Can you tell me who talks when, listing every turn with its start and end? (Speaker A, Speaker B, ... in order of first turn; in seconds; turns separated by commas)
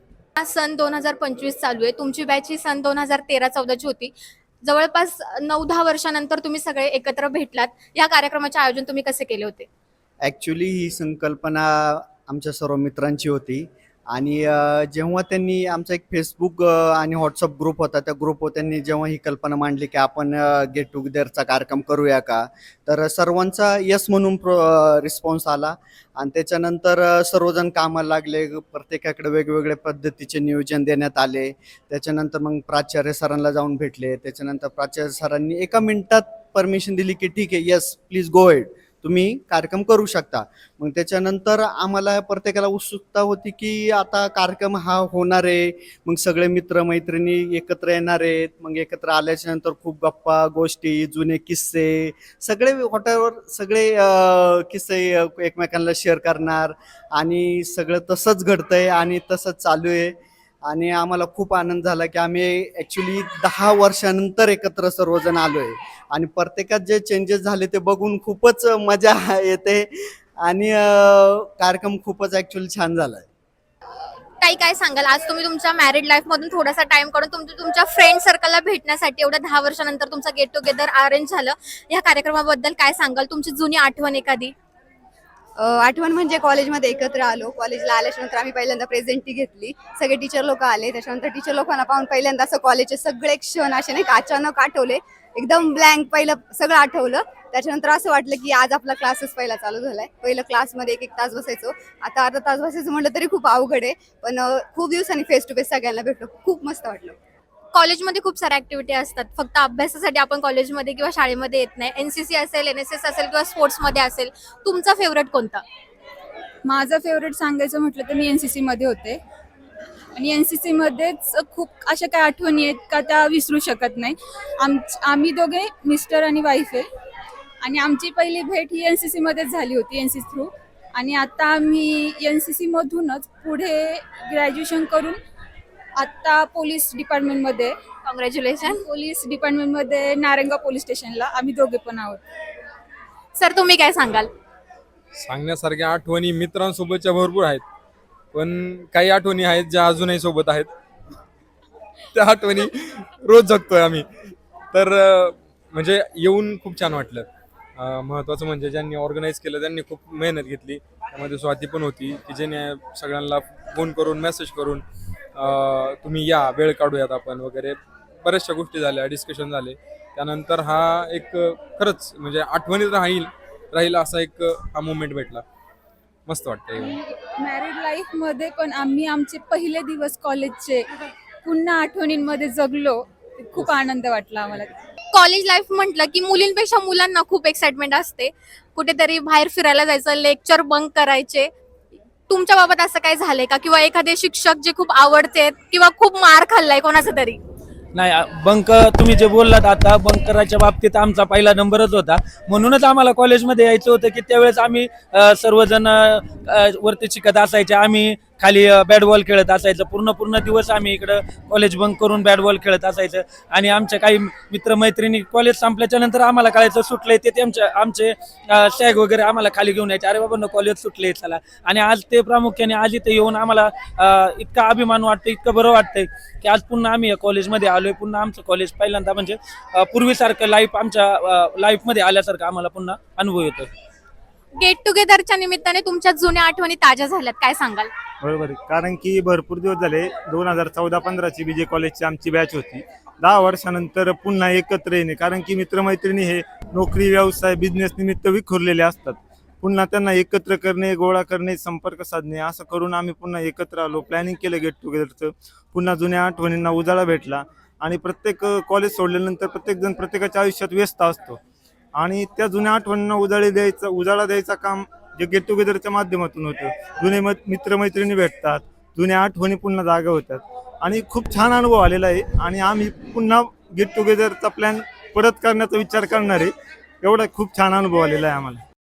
Speaker A: 0.4-4.1, Speaker A: 4.6-9.7, Speaker B: 10.2-73.2, Speaker A: 74.4-84.5, Speaker C: 85.6-107.2, Speaker A: 107.7-115.6, Speaker D: 116.6-119.2, Speaker D: 120.2-126.9, Speaker D: 127.6-135.2, Speaker D: 136.0-137.7, Speaker A: 138.1-138.8, Speaker D: 138.6-142.2, Speaker A: 143.3-144.3, Speaker E: 145.2-147.6, Speaker E: 148.3-150.7, Speaker E: 152.1-154.1, Speaker E: 154.7-164.8, Speaker E: 165.3-175.4, Speaker E: 176.2-176.9, Speaker D: 176.8-180.8, Speaker D: 181.4-184.8, Speaker A: 185.1-191.5, Speaker A: 192.3-197.4, Speaker F: 197.9-233.7, Speaker A: 234.6-237.9, Speaker G: 238.2-261.4, Speaker G: 261.9-276.5, Speaker G: 277.0-278.6